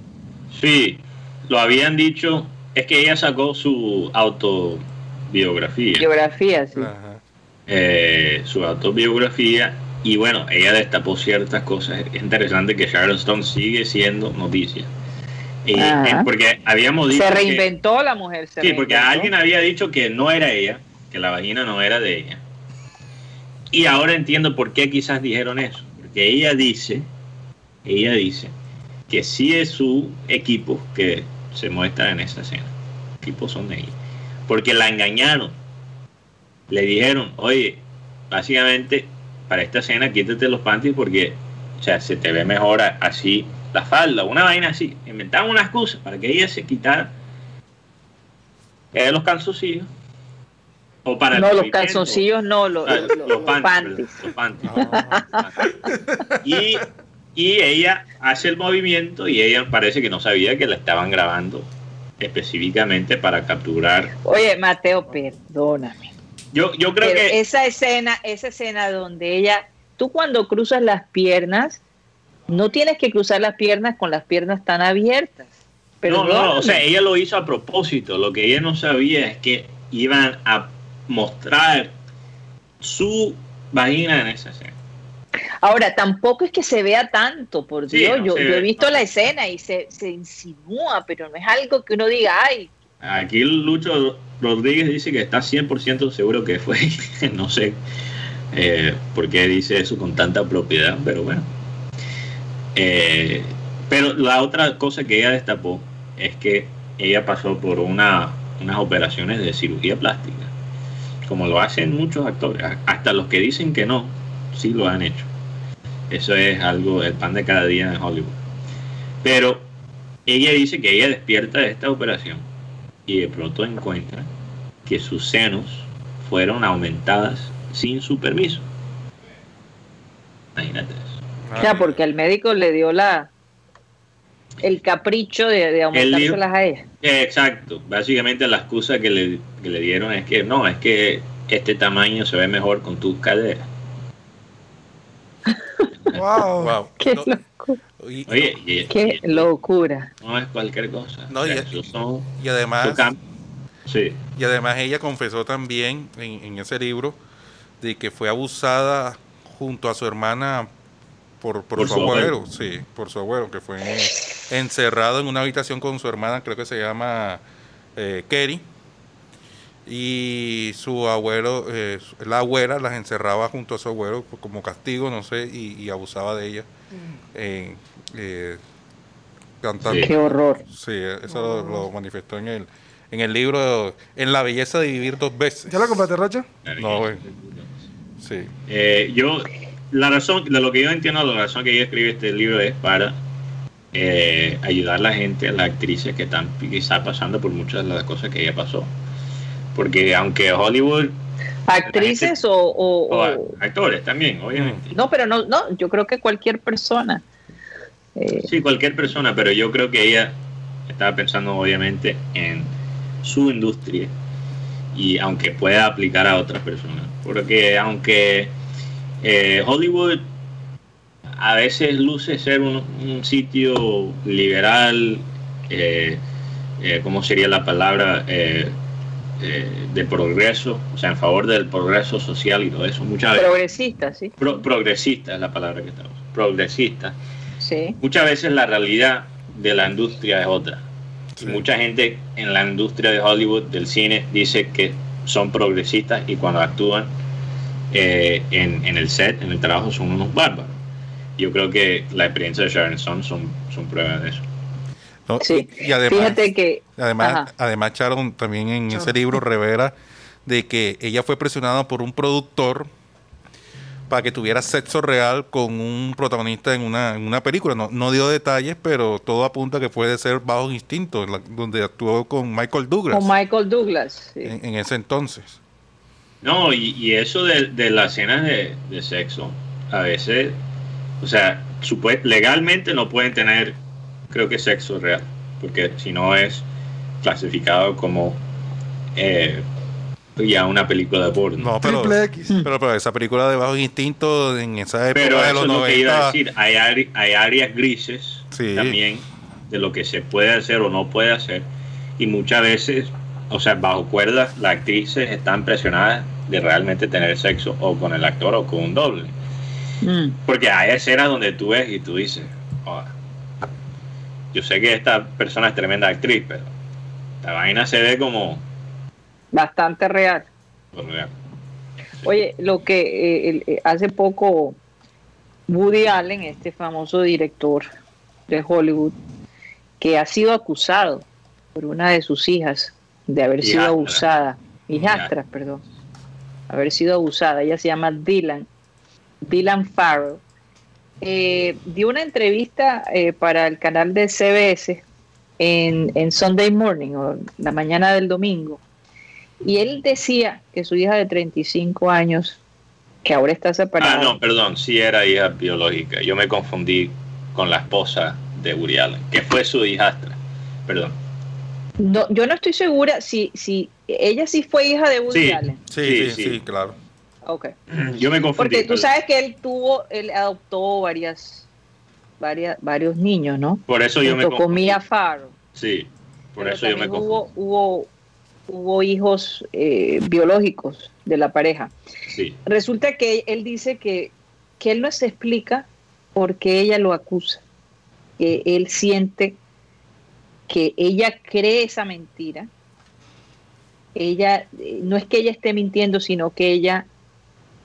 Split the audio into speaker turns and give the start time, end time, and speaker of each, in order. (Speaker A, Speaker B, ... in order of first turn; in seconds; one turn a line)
Speaker A: 0.5-6.1
Speaker B: 6.0-6.9
Speaker C: 6.8-7.2
Speaker A: 7.7-14.9
Speaker A: 15.6-17.6
Speaker B: 15.8-16.3
Speaker B: 17.1-19.3
Speaker A: 18.6-22.4
Speaker A: 23.7-27.1
Speaker A: 27.8-28.5
Speaker A: 29.1-33.9
Speaker A: 34.5-35.5
Speaker A: 36.7-47.1
Speaker A: 48.9-49.9
Speaker A: 51.0-52.2
Speaker B: 51.3-54.2
Speaker A: 52.9-55.0
Speaker C: 54.6-55.5
Speaker B: 54.8-55.4
Speaker D: 55.9-56.2
Speaker A: 56.4-61.7
Speaker A: 62.2-64.1
Speaker B: 64.2-66.1
Speaker A: 66.5-67.4
Speaker B: 67.0-71.8
Speaker B: 72.5-75.5
Speaker B: 76.0-76.8
Speaker A: 76.1-81.9
Speaker A: 82.8-84.7
Speaker B: 85.6-92.7
Speaker A: 87.9-89.3
Speaker A: 93.0-97.8
Speaker A: 98.5-101.5
Speaker A: 102.8-110.5
Speaker A: 111.2-115.3
Speaker A: 116.1-118.4
Speaker A: 119.2-119.7
Speaker A: 120.2-122.5
Speaker A: 123.1-124.3
Speaker A: 124.9-128.7
Speaker A: 130.6-131.2
Speaker C: 131.4-132.0
Speaker B: 131.6-133.3
Speaker B: 134.6-136.8
Speaker A: 135.9-136.4
Speaker A: 137.0-143.7
Speaker D: 146.1-146.8
Speaker C: 146.6-147.3
Speaker B: 147.0-147.8
Speaker C: 148.0-148.6
Speaker A: 148.3-149.4
Speaker B: 148.9-150.1
Speaker A: 150.2-152.3
Speaker C: 151.3-151.8
Speaker C: 152.4-153.1
Speaker A: 152.8-153.2
Speaker A: 153.9-154.2
Speaker C: 154.4-157.2
Speaker C: 157.8-160.7
Speaker C: 161.4-167.4
Speaker A: 161.8-162.3
Speaker C: 167.9-168.6
Speaker C: 169.9-176.7
Speaker C: 177.3-178.6
Speaker C: 179.6-180.2
Speaker A: 179.8-180.1
Speaker B: 179.9-180.6
Speaker C: 180.7-186.1
Speaker D: 181.3-181.8
Speaker D: 185.7-186.4
Speaker A: 186.6-187.7
Speaker C: 186.8-187.2
Speaker C: 188.2-188.5
Speaker A: 188.7-193.2
Speaker A: 193.9-198.9
Speaker A: 199.7-201.2
Speaker B: 201.7-203.6
Speaker A: 201.9-202.3
Speaker A: 203.1-204.9
Speaker B: 204.9-207.2
Speaker B: 208.2-208.5
Speaker A: 208.4-210.3
Speaker A: 210.9-212.7
Speaker A: 213.2-214.1
Speaker A: 214.9-218.5
Speaker A: 219.2-220.2
Speaker A: 221.4-226.2
Speaker A: 226.8-228.7
Speaker A: 229.4-233.5
Speaker B: 233.4-234.3
Speaker A: 234.4-237.1
Speaker B: 237.6-238.0
Speaker A: 238.0-240.8
Speaker A: 241.4-247.1
Speaker A: 247.9-250.8
Speaker A: 251.4-254.4
Speaker C: 255.3-256.4
Speaker B: 255.4-257.5
Speaker C: 256.9-259.9
Speaker C: 260.4-262.9
Speaker C: 264.1-273.3
Speaker B: 273.1-274.5
Speaker C: 274.4-275.6
Speaker A: 276.4-280.6
Speaker A: 281.2-283.8
Speaker A: 284.3-286.6
Speaker A: 287.2-288.4
Speaker A: 289.1-289.6
Speaker A: 290.4-291.7
Speaker C: 291.6-296.4
Speaker D: 291.8-292.6
Speaker A: 295.1-301.7
Speaker C: 298.5-299.0
Speaker A: 302.2-309.4
Speaker B: 310.0-310.4
Speaker A: 310.4-313.7
Speaker A: 314.5-316.7
Speaker A: 317.4-318.6
Speaker B: 319.5-320.5
Speaker A: 320.9-321.3
Speaker B: 322.2-324.8
Speaker B: 325.7-327.9
Speaker B: 328.5-329.1
Speaker B: 330.0-335.8
Speaker A: 333.6-334.2
Speaker A: 334.9-335.3
Speaker B: 336.7-338.7
Speaker B: 339.4-340.4
Speaker B: 341.2-345.0
Speaker B: 345.6-348.8
Speaker B: 349.6-352.6
Speaker B: 353.2-354.4
Speaker A: 354.0-361.1
Speaker B: 362.0-365.8
Speaker A: 365.3-366.6
Speaker C: 365.9-366.9
Speaker B: 367.4-367.7
Speaker A: 367.9-369.1
Speaker B: 368.6-371.6
Speaker B: 372.4-375.5
Speaker A: 373.9-374.9
Speaker A: 375.7-377.4
Speaker B: 376.6-378.1
Speaker B: 378.7-381.9
Speaker A: 382.3-382.6
Speaker B: 382.6-387.6
Speaker B: 388.4-389.6
Speaker B: 390.7-392.7
Speaker B: 394.1-397.1